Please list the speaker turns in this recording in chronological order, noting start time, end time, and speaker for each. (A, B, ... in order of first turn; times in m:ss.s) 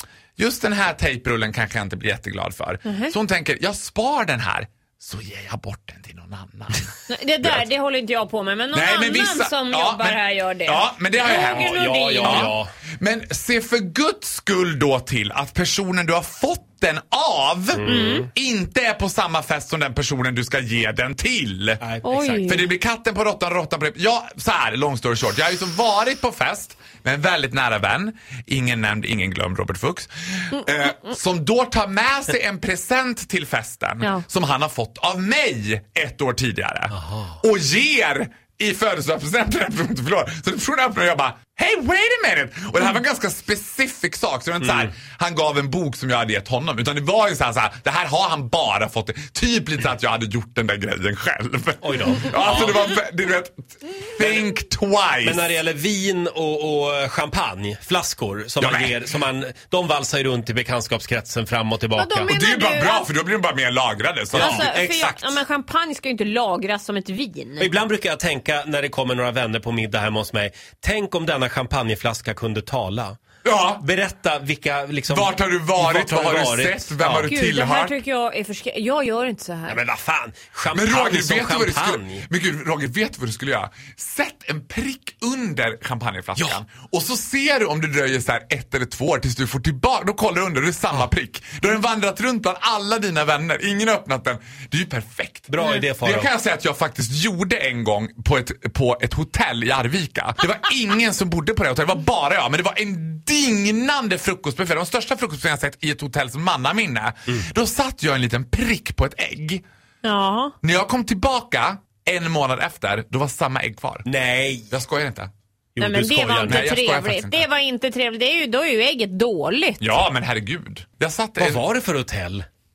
0:00.4-0:07.6 A
0:02.8-0:03.1 B
0:07.1-0:12.5 B
0:08.7-0:21.8 A
0:11.2-0:12.7 C
0:17.8-0:18.3 C
0:17.8-0:18.3 B
0:21.8-0:22.6 C
0:22.0-0:22.7 B
0:22.4-0:55.4 A
0:36.9-0:37.4 C
0:44.6-0:44.9 C
0:51.8-0:52.9 C
0:55.2-1:02.3 C
0:58.6-0:59.0 A
1:01.9-1:03.1 B
1:02.2-1:04.8 A
1:04.3-1:05.4 C
1:04.4-1:07.7 B
1:07.6-1:13.2 C
1:13.4-1:13.8 A
1:13.8-1:17.3 C
1:15.1-1:18.0 A
1:17.2-1:19.8 B
1:19.7-1:22.2 C
1:20.7-1:49.6 A
1:35.5-1:36.3 C
1:50.0-1:50.5 B
1:50.6-1:54.1 A
1:54.0-1:54.7 C
1:54.7-1:55.3 A
1:55.8-1:56.7 C
1:55.8-1:59.9 B
1:56.4-1:57.5 A
1:59.8-2:01.6 A
2:01.4-2:02.4 C